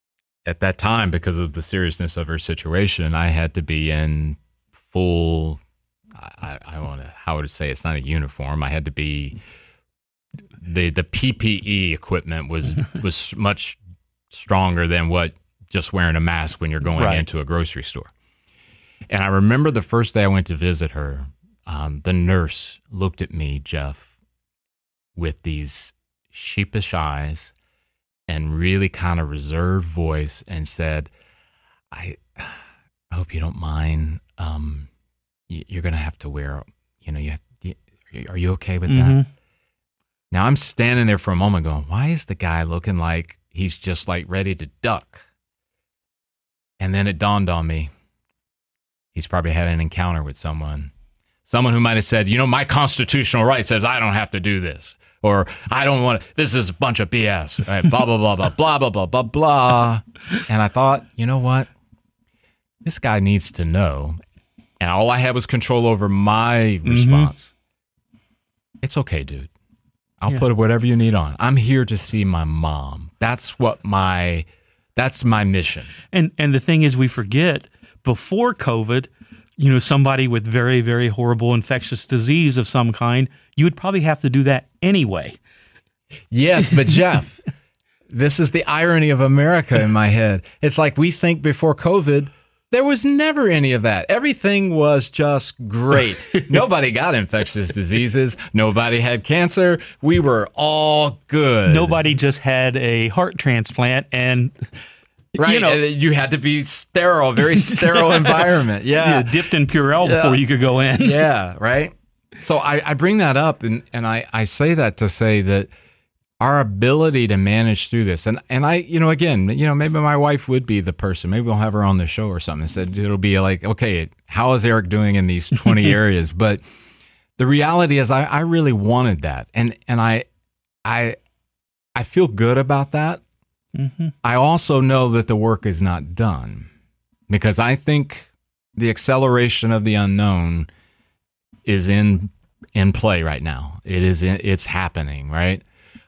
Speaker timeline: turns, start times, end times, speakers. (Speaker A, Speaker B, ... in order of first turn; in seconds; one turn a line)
Speaker A: 0.4-5.6
Speaker A: 6.2-9.4
Speaker A: 10.6-13.8
Speaker A: 14.3-18.1
Speaker B: 17.0-17.2
Speaker A: 19.1-24.1
Speaker A: 25.1-27.5
Speaker A: 28.3-31.1
Speaker A: 31.9-34.9
Speaker A: 35.5-39.2
Speaker B: 38.9-39.3
Speaker A: 40.3-45.2
Speaker A: 46.8-47.9
Speaker A: 49.1-50.9
Speaker A: 51.5-61.7
Speaker A: 62.8-64.2
Speaker A: 64.8-67.5
Speaker B: 66.8-67.3
Speaker A: 68.8-69.5
Speaker A: 70.2-75.9
Speaker B: 76.1-85.4
Speaker A: 86.3-87.5
Speaker A: 88.1-102.0
Speaker B: 101.7-104.7
Speaker B: 105.3-105.8
Speaker A: 105.4-110.4
Speaker B: 107.6-111.2
Speaker A: 111.0-115.7
Speaker A: 116.4-126.6
Speaker A: 127.4-130.2
Speaker A: 130.8-131.2
Speaker A: 131.9-133.2
Speaker B: 133.7-134.1
Speaker A: 134.2-136.7
Speaker A: 137.3-140.7
Speaker A: 141.6-145.6